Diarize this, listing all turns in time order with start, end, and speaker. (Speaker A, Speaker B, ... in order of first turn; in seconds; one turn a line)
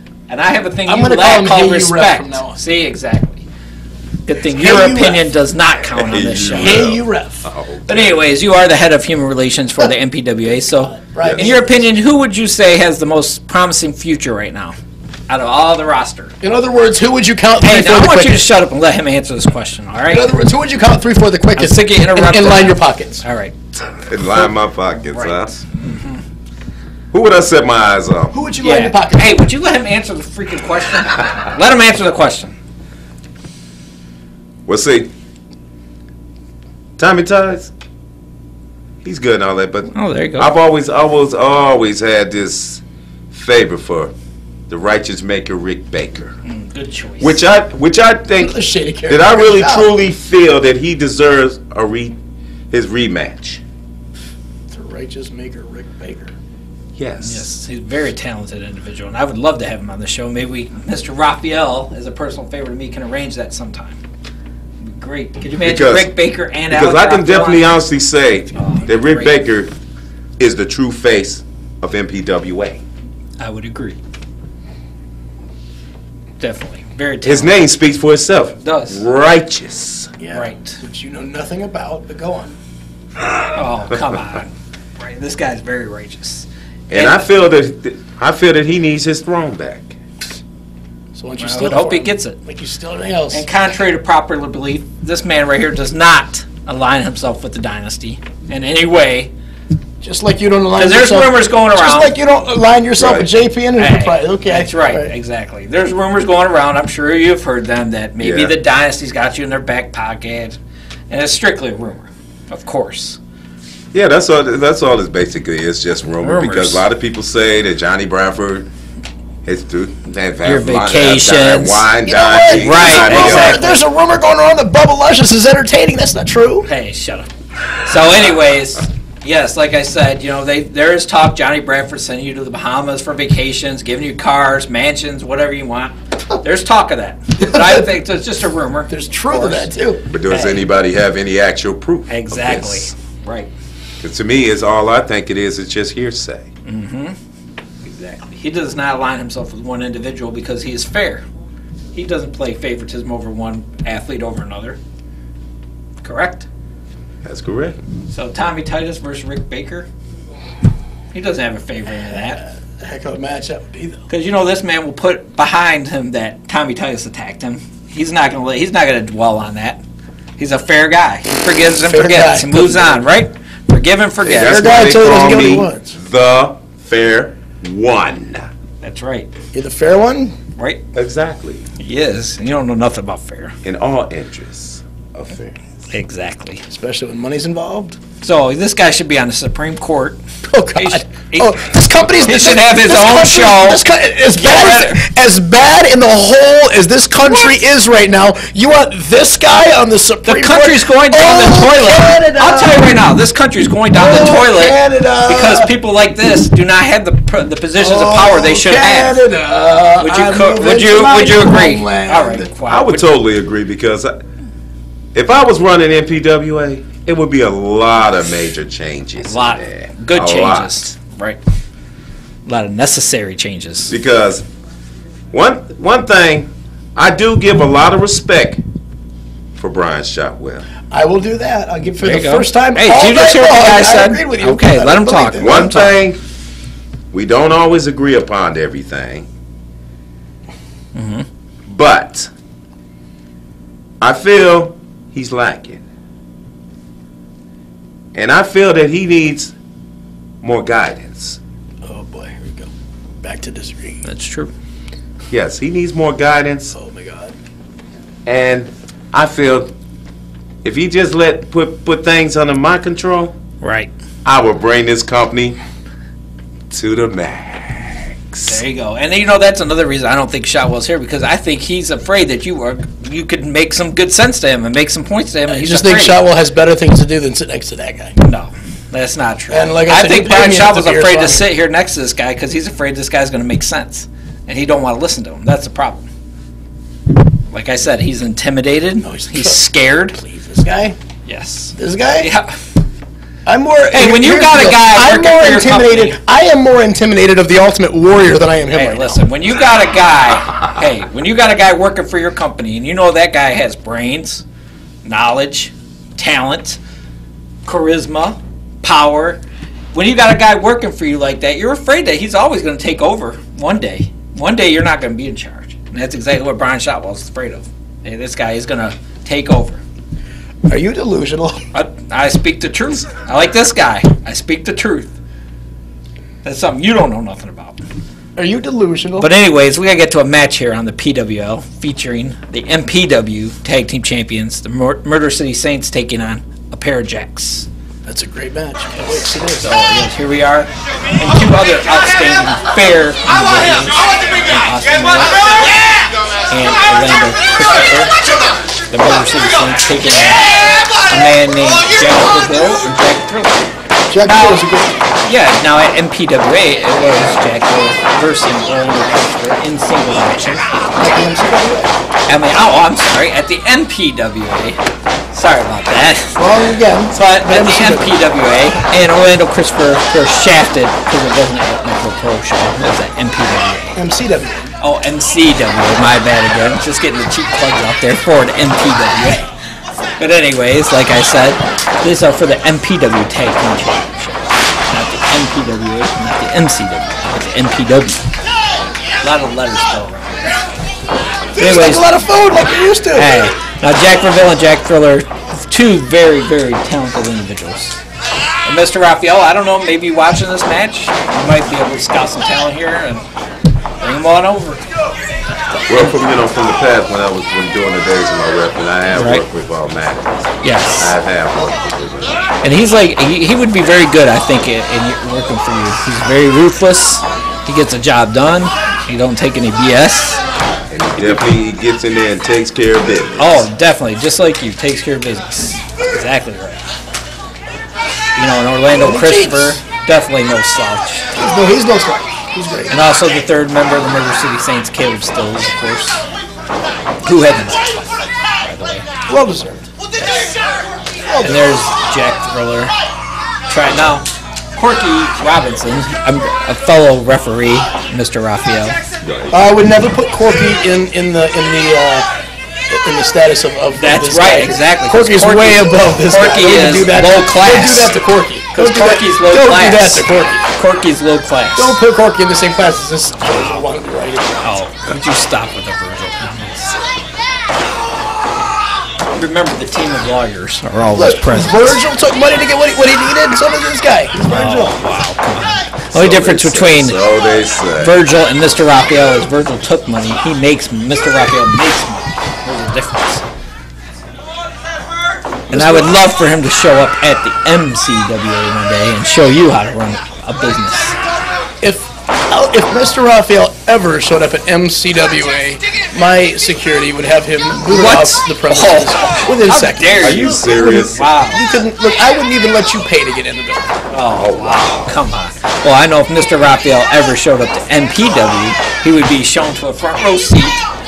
Speaker A: 0.3-3.5
Speaker B: 0.9-2.6
Speaker A: 4.3-6.9
Speaker B: 4.6-5.2
Speaker C: 6.1-8.2
Speaker B: 6.4-7.5
Speaker A: 7.9-14.8
Speaker B: 10.6-11.8
Speaker A: 15.3-16.3
Speaker B: 16.4-18.4
Speaker A: 17.6-20.3
Speaker B: 20.1-23.2
Speaker A: 21.6-23.6
Speaker C: 24.0-25.5
Speaker A: 25.0-26.2
Speaker C: 27.1-28.4
Speaker B: 28.3-29.5
Speaker A: 28.6-32.6
Speaker C: 34.6-35.1
Speaker C: 37.0-37.7
Speaker C: 39.0-44.1
Speaker A: 39.9-40.5
Speaker C: 44.7-46.4
Speaker A: 46.5-47.4
Speaker C: 47.2-48.6
Speaker B: 48.4-49.9
Speaker C: 49.1-52.2
Speaker C: 52.7-53.6
Speaker B: 54.7-56.3
Speaker C: 57.0-57.5
Speaker A: 57.2-64.0
Speaker A: 64.8-67.8
Speaker C: 65.6-66.1
Speaker C: 66.7-69.7
Speaker A: 68.5-69.4
Speaker C: 70.4-72.8
Speaker A: 73.4-74.0
Speaker A: 76.4-77.6
Speaker C: 77.2-80.1
Speaker A: 78.6-79.0
Speaker B: 80.2-82.6
Speaker A: 80.3-80.8
Speaker A: 83.5-87.2
Speaker C: 86.9-90.0
Speaker B: 91.1-93.6
Speaker A: 91.4-92.4
Speaker A: 93.3-99.3
Speaker B: 100.0-105.1
Speaker A: 100.8-102.1
Speaker C: 103.0-103.3
Speaker A: 103.8-110.6
Speaker C: 108.2-108.5
Speaker A: 111.1-113.2
Speaker C: 113.9-118.7
Speaker A: 116.2-116.8
Speaker C: 119.5-123.6
Speaker A: 120.4-121.9
Speaker B: 122.0-126.7
Speaker A: 122.5-123.8
Speaker A: 126.7-139.7
Speaker B: 137.4-137.9
Speaker B: 138.9-140.0
Speaker C: 140.1-142.9
Speaker A: 140.3-140.6
Speaker A: 142.1-143.5
Speaker C: 144.0-146.5
Speaker A: 146.7-147.2
Speaker A: 147.8-151.2
Speaker A: 151.9-154.8
Speaker A: 156.0-156.5
Speaker C: 157.2-157.8
Speaker A: 158.1-159.9
Speaker A: 161.1-162.4
Speaker B: 162.8-164.1
Speaker A: 164.1-169.8
Speaker A: 170.4-174.8
Speaker B: 171.8-173.0
Speaker C: 174.2-178.5
Speaker B: 174.4-176.0
Speaker A: 178.8-179.3
Speaker B: 179.5-180.4
Speaker A: 180.6-180.8
Speaker C: 180.9-181.7
Speaker A: 181.8-183.6
Speaker C: 183.6-185.6
Speaker A: 185.9-186.6
Speaker B: 186.7-188.0
Speaker A: 188.2-190.2
Speaker B: 190.5-203.0
Speaker A: 190.8-193.8
Speaker A: 194.4-195.0
Speaker A: 200.2-209.2
Speaker B: 203.9-205.7
Speaker B: 207.8-212.5
Speaker A: 210.0-213.1
Speaker C: 212.7-214.2
Speaker C: 215.1-220.9
Speaker A: 219.2-221.4
Speaker A: 222.5-223.9
Speaker C: 223.9-224.4
Speaker C: 225.3-228.6
Speaker C: 229.6-230.7
Speaker B: 230.9-235.7
Speaker A: 232.0-236.0
Speaker C: 235.4-236.2
Speaker C: 237.1-239.3
Speaker A: 240.9-241.2
Speaker C: 241.7-242.3
Speaker C: 244.0-245.8
Speaker C: 248.1-249.5
Speaker C: 250.4-251.4
Speaker B: 251.8-252.7
Speaker B: 253.2-254.0
Speaker A: 254.0-254.5
Speaker C: 255.3-256.8
Speaker B: 256.7-257.3
Speaker C: 258.3-259.7
Speaker C: 260.6-263.4
Speaker A: 263.6-263.9
Speaker C: 264.2-265.6
Speaker C: 266.7-268.6
Speaker A: 268.4-276.2
Speaker B: 275.5-278.2
Speaker A: 278.2-286.1
Speaker B: 279.5-281.5
Speaker A: 287.5-290.2
Speaker B: 289.0-289.6
Speaker B: 290.1-291.0
Speaker A: 291.2-292.6
Speaker B: 291.8-292.3
Speaker B: 293.4-299.2
Speaker A: 293.9-296.2
Speaker A: 298.7-304.4
Speaker A: 305.0-306.8
Speaker A: 307.6-309.4
Speaker A: 309.9-319.8
Speaker B: 320.6-321.6
Speaker A: 321.7-325.1
Speaker A: 326.4-327.8
Speaker B: 328.4-329.3
Speaker A: 329.2-337.7
Speaker B: 338.1-339.8
Speaker A: 339.6-345.4
Speaker A: 346.5-348.1
Speaker A: 348.9-353.6
Speaker B: 354.1-355.1
Speaker A: 354.2-354.6
Speaker A: 355.2-360.8
Speaker B: 360.9-361.9
Speaker A: 362.3-366.4
Speaker B: 366.4-368.1
Speaker A: 367.1-374.0
Speaker B: 373.9-374.8
Speaker A: 374.8-379.5
Speaker A: 380.2-388.3
Speaker A: 389.2-390.7
Speaker B: 391.6-393.4
Speaker A: 391.6-392.1
Speaker A: 393.1-398.0
Speaker A: 398.6-403.2
Speaker A: 404.0-404.8
Speaker C: 405.9-412.5
Speaker A: 409.1-409.4
Speaker A: 410.6-411.1
Speaker A: 412.6-420.4
Speaker C: 420.9-423.7
Speaker A: 421.1-421.5
Speaker A: 423.4-426.9
Speaker A: 428.4-431.3
Speaker B: 428.9-429.8
Speaker B: 431.4-433.0
Speaker A: 432.9-436.2
Speaker A: 437.2-439.1
Speaker B: 439.3-439.9
Speaker A: 440.2-440.6
Speaker B: 441.3-441.6
Speaker A: 441.4-442.9
Speaker A: 443.7-449.0
Speaker C: 449.2-449.6
Speaker B: 449.5-452.3
Speaker B: 452.9-460.7
Speaker A: 454.0-458.1
Speaker A: 458.7-462.0
Speaker B: 461.8-464.6
Speaker A: 464.6-466.9
Speaker A: 469.3-472.0
Speaker B: 471.1-474.9
Speaker A: 474.5-477.2
Speaker C: 476.1-478.2
Speaker A: 478.0-483.4
Speaker B: 485.7-486.1
Speaker A: 485.7-491.2
Speaker B: 491.8-504.0
Speaker A: 497.9-501.6
Speaker C: 500.2-501.2
Speaker A: 504.1-510.9
Speaker C: 504.4-505.1